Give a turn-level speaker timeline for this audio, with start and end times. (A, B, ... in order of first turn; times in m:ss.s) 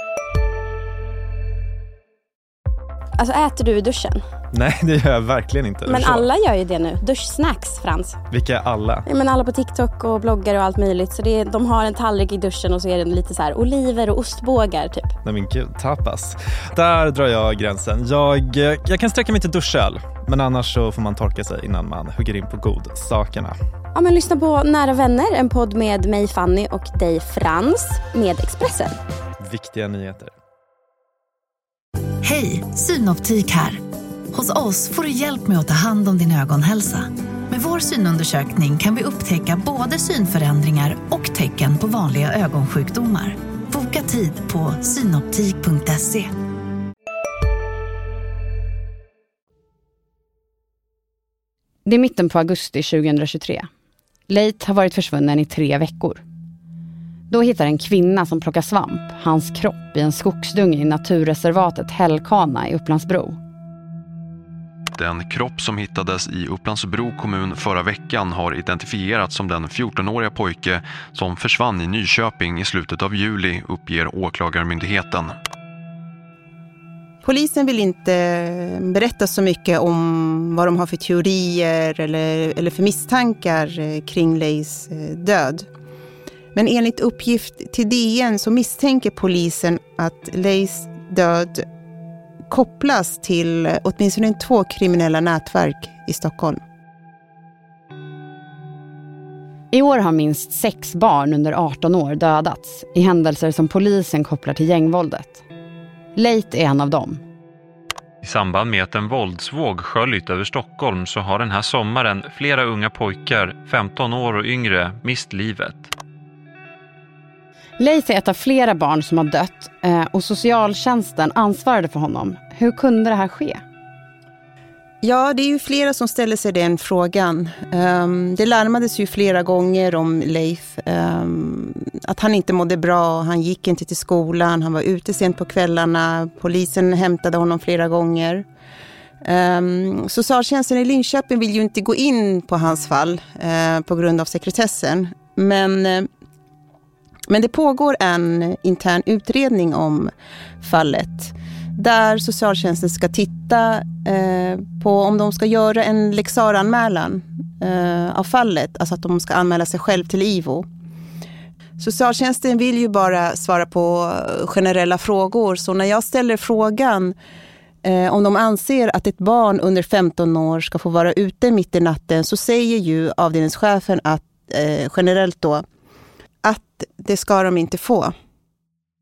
0:03.2-0:04.2 A
0:04.5-0:06.3 B
0:05.9-0:08.2 A
0:08.3-0:09.0 B
0:09.1-0:15.2 A
0:15.2-0:23.6 B
0:23.9-0:29.0 A
0:29.4-0:30.3 B
0:32.2-0:33.8 C
0:34.3-0:46.3 C
0:51.8-0:53.7 D
0:54.3-0:56.2 D
0:57.3-1:03.4 D
1:04.9-1:15.4 E
1:17.2-1:25.7 F
1:26.5-1:31.7 F
1:32.5-1:36.6 F
1:39.7-1:45.4 D
1:46.2-1:47.2 D
1:48.2-1:55.9 G
1:57.8-2:03.6 D
2:05.0-2:18.4 F
2:19.2-2:26.1 F
2:27.3-2:40.6 F
2:41.8-2:47.2 F
2:47.8-2:55.6 F
2:56.4-2:58.1 F